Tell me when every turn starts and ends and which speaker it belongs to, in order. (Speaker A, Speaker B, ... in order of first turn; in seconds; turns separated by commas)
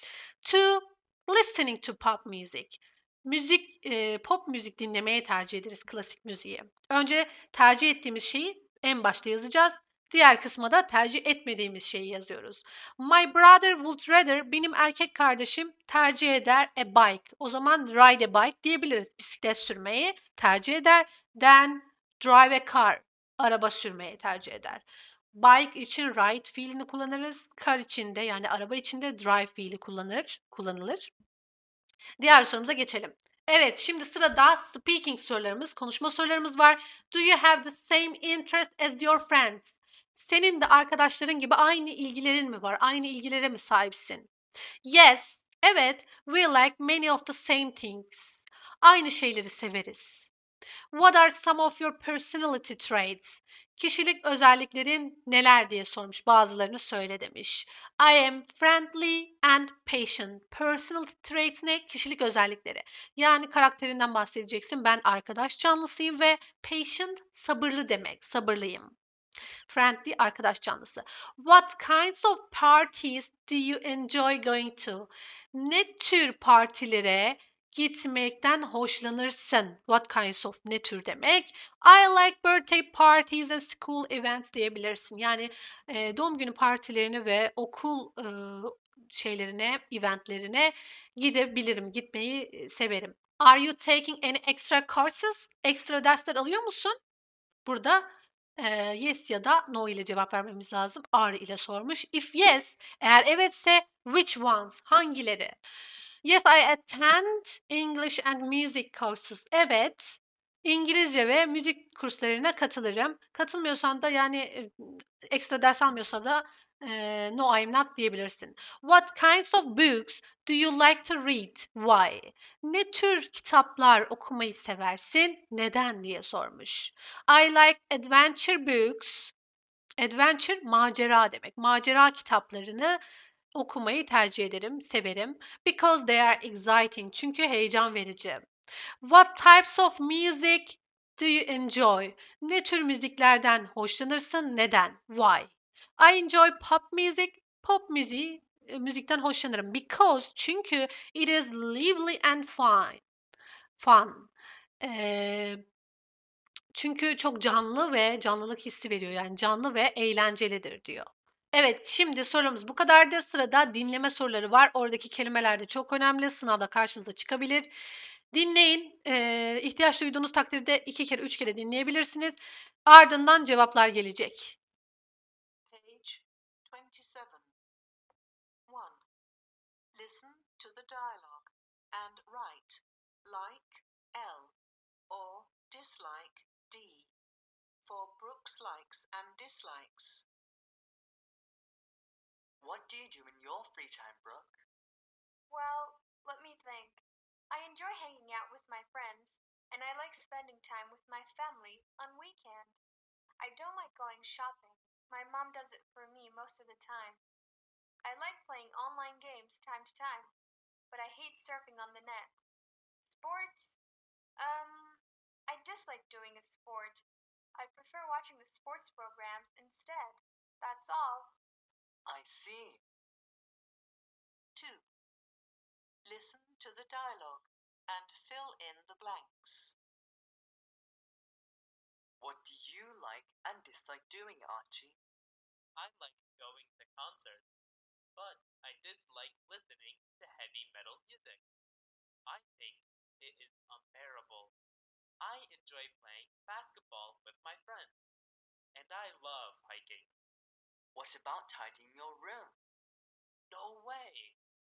Speaker A: 0.4-31.1, Speaker A: 32.2-44.3, Speaker A: 44.8-50.3, Speaker A: 50.9-69.0, Speaker A: 69.7-97.0, Speaker A: 97.6-105.6, Speaker A: 106.2-129.3, Speaker A: 130.0-133.0, Speaker A: 133.5-138.5, Speaker A: 139.0-153.0, Speaker A: 153.8-155.6, Speaker A: 156.7-167.7, Speaker A: 168.3-174.6, Speaker B: 175.7-177.5, Speaker B: 178.7-179.0, Speaker B: 179.9-184.6, Speaker B: 185.1-187.1, Speaker B: 187.8-190.3, Speaker C: 192.6-194.6, Speaker D: 195.5-202.8, Speaker D: 203.4-207.2, Speaker D: 208.0-210.3, Speaker D: 210.9-212.4, Speaker D: 213.0-213.8, Speaker D: 214.4-217.0, Speaker D: 217.6-221.3, Speaker C: 222.1-222.8, Speaker B: 224.5-224.9, Speaker B: 226.0-229.8, Speaker C: 232.2-235.0, Speaker E: 235.8-237.4, Speaker E: 238.2-241.4, Speaker E: 242.3-244.5, Speaker E: 245.2-248.0, Speaker E: 248.7-250.1, Speaker C: 250.9-252.6, Speaker E: 253.5-254.4